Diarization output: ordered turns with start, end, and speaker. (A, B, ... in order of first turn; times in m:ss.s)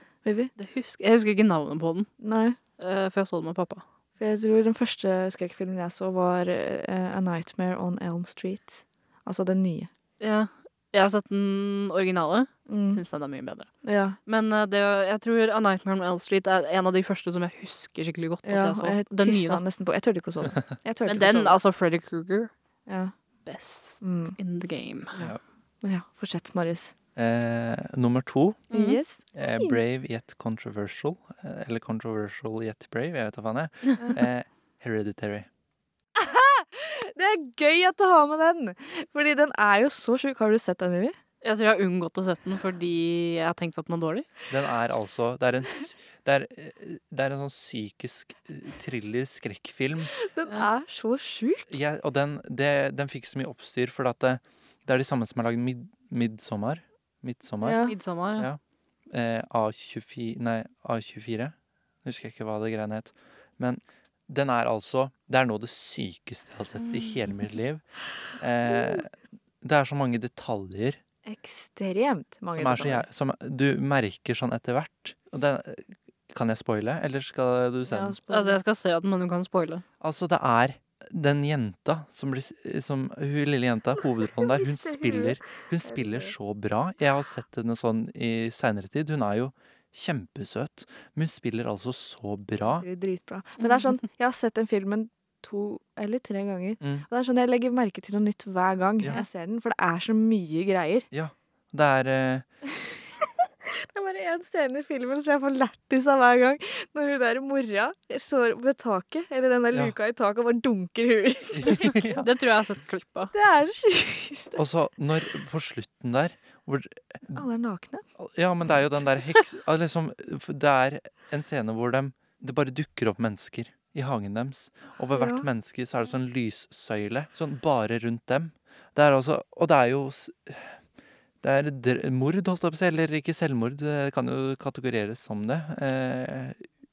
0:00.2-0:00.5 A
0:00.6-0:02.1 B
0:02.2-0:02.6 A
0:02.8-0:03.8 B
0:04.2-0:09.9 A
0:10.2-0:13.7 B
0:12.7-0:13.0 A
0:13.8-0:14.2 A
0:14.3-0:19.6 B
0:18.4-0:21.6 A
0:21.0-0:22.5 B
0:22.9-0:23.1 A
0:23.5-0:25.2 B
0:24.0-0:24.4 A
0:25.2-0:26.9 A
0:27.2-0:28.7 C
0:28.7-0:29.0 B
0:28.7-0:29.8 A
0:29.3-0:35.5 C
0:36.2-0:41.2 A
0:41.4-0:44.3 B
0:44.5-0:50.1 C
0:50.1-0:51.8 A
0:51.7-0:57.8 C
0:57.6-0:58.0 A
0:57.8-0:58.5 B
0:59.1-1:07.8 C
1:08.4-1:11.0 C
1:11.3-1:13.0 A
1:12.5-1:18.2 C
1:17.8-1:18.6 A
1:18.3-1:19.8 B
1:20.0-1:32.9 C
1:24.3-1:26.3 A
1:32.8-1:41.1 A
1:36.8-1:37.1 C
1:41.1-1:42.5 C
1:42.8-1:52.1 A
1:51.5-1:52.3 C
1:51.7-1:53.3 B
1:53.3-1:54.6 A
1:54.6-1:57.4 C
1:57.3-1:58.0 A
1:58.2-2:10.8 C
2:05.1-2:05.5 A
2:11.4-2:16.6 C